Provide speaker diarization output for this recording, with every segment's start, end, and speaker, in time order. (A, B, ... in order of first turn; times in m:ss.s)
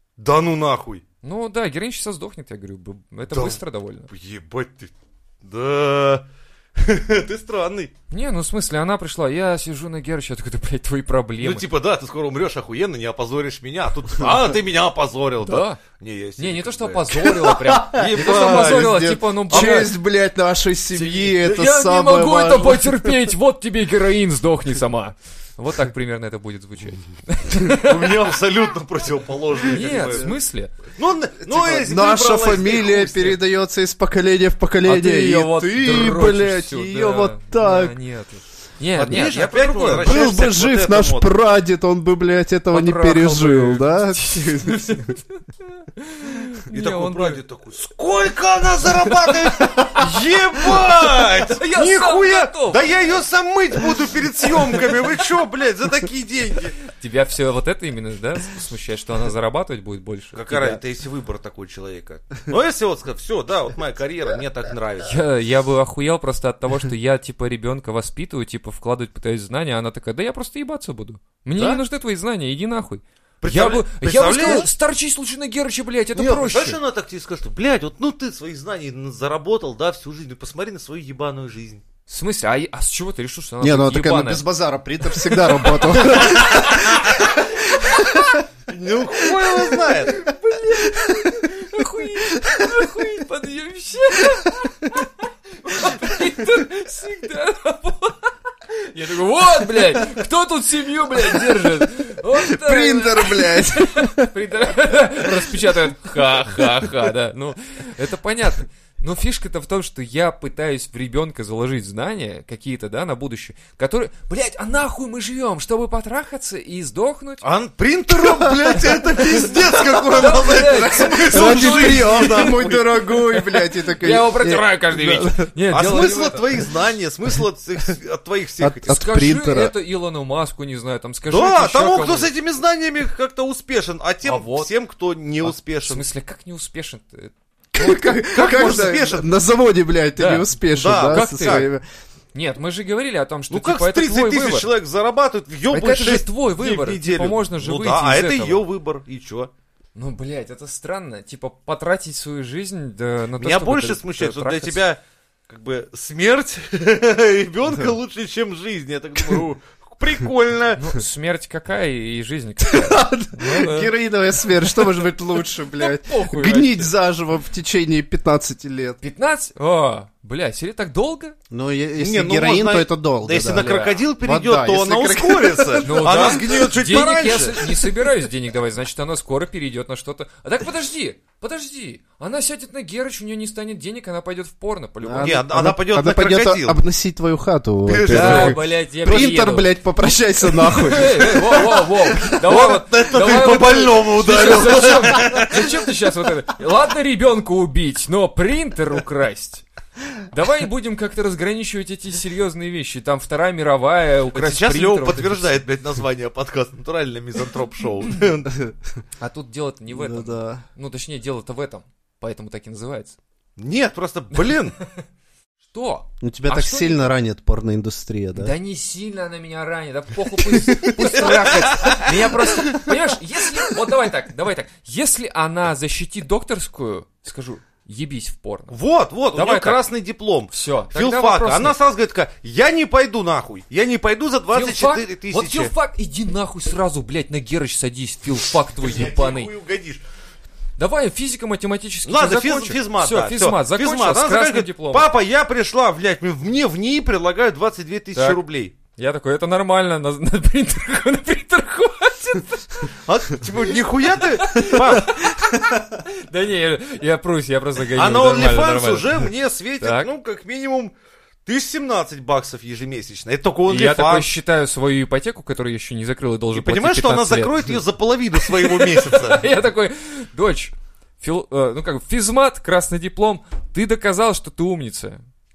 0:00.2-0:01.0 A
0:01.2-0:04.1 B
0:03.3-0:07.9 A
0:08.1-0:11.7 B
0:11.4-0:19.0 A
0:15.4-0:15.8 B
0:16.4-0:20.0 B
0:17.3-0:23.2 C
0:21.0-0:28.2 B
0:27.7-0:30.3 A
0:29.7-0:30.7 B
0:31.0-0:33.4 A
0:31.4-0:37.9 C
0:34.8-0:40.5 B
0:39.0-0:41.3 A
0:39.9-0:45.2 C
0:42.7-0:47.4 B
0:46.7-0:56.8 A
0:49.1-0:50.1 B
0:50.7-0:52.8 B
0:56.9-1:00.8 B
1:00.3-1:05.2 A
1:05.0-1:16.8 B
1:13.4-1:14.7 A
1:16.2-1:21.8 A
1:22.1-1:24.4 B
1:23.6-1:28.4 C
1:25.2-1:28.4 B
1:26.6-1:26.9 A
1:28.7-1:30.2 A
1:29.3-1:30.0 C
1:30.1-1:57.5 B
1:30.7-1:33.1 C
1:41.3-1:44.3 C
1:57.4-2:02.9 A
1:58.2-2:05.5 C
2:00.0-2:06.6 B
2:05.7-2:09.0 A
2:08.6-2:09.7 C
2:08.9-2:12.3 B
2:11.3-2:16.0 A
2:14.2-2:14.7 B
2:15.4-2:18.9 B
2:17.7-2:21.8 C
2:18.0-2:19.3 A
2:20.2-2:21.7 B
2:20.7-2:21.7 A
2:22.3-2:24.7 B
2:23.5-2:29.5 A
2:25.7-2:28.6 B
2:30.0-2:34.8 B
2:33.4-2:41.0 A
2:40.8-2:44.0 B
2:42.6-2:49.0 C
2:44.5-2:44.9 B
2:45.7-2:46.9 B
2:49.0-2:51.4 B
2:51.5-2:56.4 C
2:52.0-2:57.9 A
2:53.5-2:54.0 B
2:55.8-3:05.4 B
3:05.0-3:11.8 C
3:05.2-3:06.8 A
3:07.9-3:08.6 A
3:08.1-3:25.6 B
3:12.3-3:15.7 A
3:24.3-3:28.6 A
3:29.2-3:33.2 B
3:29.9-3:30.6 C
3:33.6-3:34.8 A
3:34.3-3:35.0 B
3:35.7-3:37.1 B
3:36.2-3:38.5 C
3:38.4-3:48.8 B
3:40.4-3:42.1 C
3:41.2-3:42.1 A
3:48.7-3:55.7 A
3:49.3-3:49.8 B
3:50.5-3:51.8 B
3:54.5-3:59.5 B
3:58.8-4:00.0 A
4:00.8-4:05.1 B
4:02.1-4:08.8 A
4:08.2-4:08.4 B
4:09.0-4:12.9 B
4:12.9-4:15.2 A
4:14.4-4:19.3 B
4:18.0-4:20.9 A
4:19.8-4:20.1 B
4:21.4-4:24.4 A
4:23.7-4:27.8 B
4:26.5-4:29.5 A
4:28.4-4:35.2 B